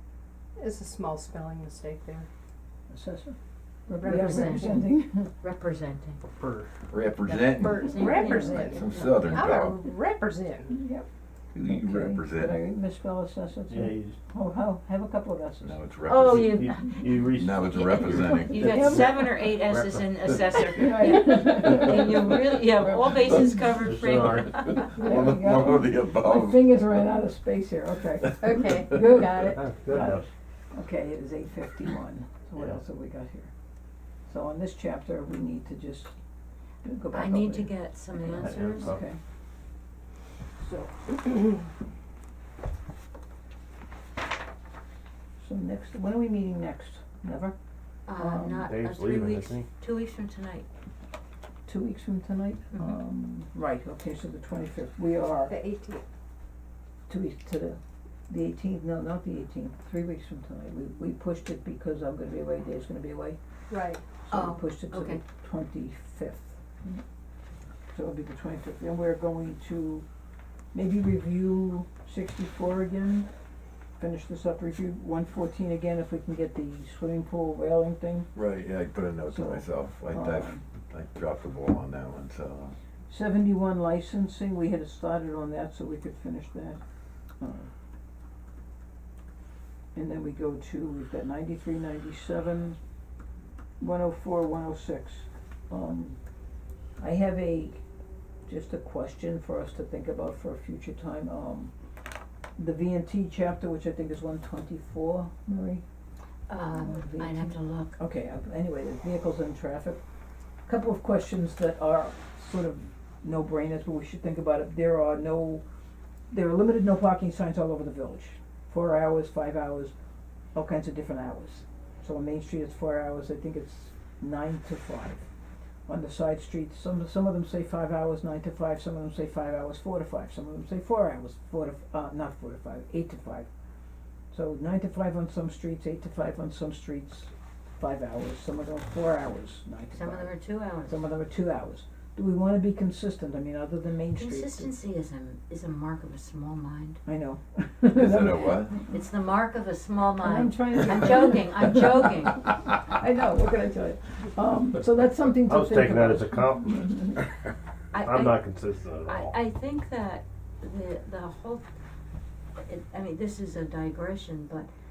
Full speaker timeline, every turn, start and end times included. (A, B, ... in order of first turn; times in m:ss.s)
0:00.6-0:02.3 A
0:02.9-0:03.4 B
0:03.9-0:05.3 B
0:04.0-0:04.8 A
0:04.0-0:04.9 C
0:05.4-0:06.2 C
0:06.4-0:06.6 D
0:06.9-0:09.7 E
0:07.2-0:10.7 A
0:07.8-0:09.1 C
0:10.7-0:11.0 B
0:11.5-0:12.6 E
0:11.6-0:15.8 B
0:13.7-0:14.2 D
0:15.6-0:16.6 E
0:16.1-0:18.3 D
0:17.3-0:19.5 E
0:17.7-0:25.0 C
0:18.6-0:19.1 B
0:19.7-0:20.0 D
0:20.7-0:23.8 B
0:23.3-0:24.6 D
0:24.6-0:27.0 E
0:25.0-0:28.6 B
0:28.4-0:29.7 A
0:29.6-0:30.3 D
0:29.9-0:33.5 B
0:34.3-0:36.1 B
0:36.8-0:39.2 B
0:37.1-0:39.0 C
0:38.3-0:39.0 D
0:40.6-0:41.2 B
0:45.4-0:47.5 B
0:48.0-0:50.6 C
0:48.1-0:48.7 B
0:48.6-0:49.7 D
0:51.6-0:55.5 B
0:55.5-0:56.0 A
0:57.1-1:03.4 B
1:03.7-1:04.0 A
1:04.2-1:07.0 B
1:04.3-1:05.2 C
1:07.9-1:10.0 B
1:10.7-1:13.3 B
1:14.0-1:18.3 B
1:18.3-1:22.7 E
1:19.3-1:20.6 B
1:23.1-1:26.8 B
1:27.4-1:27.7 B
1:29.9-1:32.8 B
1:33.8-1:36.2 B
1:37.0-1:37.8 B
1:38.4-1:41.7 B
1:42.6-1:45.8 B
1:46.5-1:48.0 C
1:46.6-1:50.0 B
1:50.6-1:55.6 B
1:56.3-1:59.9 B
2:00.5-2:05.3 B
2:05.9-2:13.5 B
2:14.3-2:24.7 B
2:19.9-2:21.0 C
2:24.1-2:27.0 C
2:27.0-2:29.0 B
2:27.9-2:28.8 E
2:28.9-2:32.4 C
2:30.2-2:37.2 B
2:35.2-2:36.8 D
2:37.9-2:38.4 C
2:38.0-2:39.4 D
2:39.0-2:41.7 C
2:42.6-2:44.7 C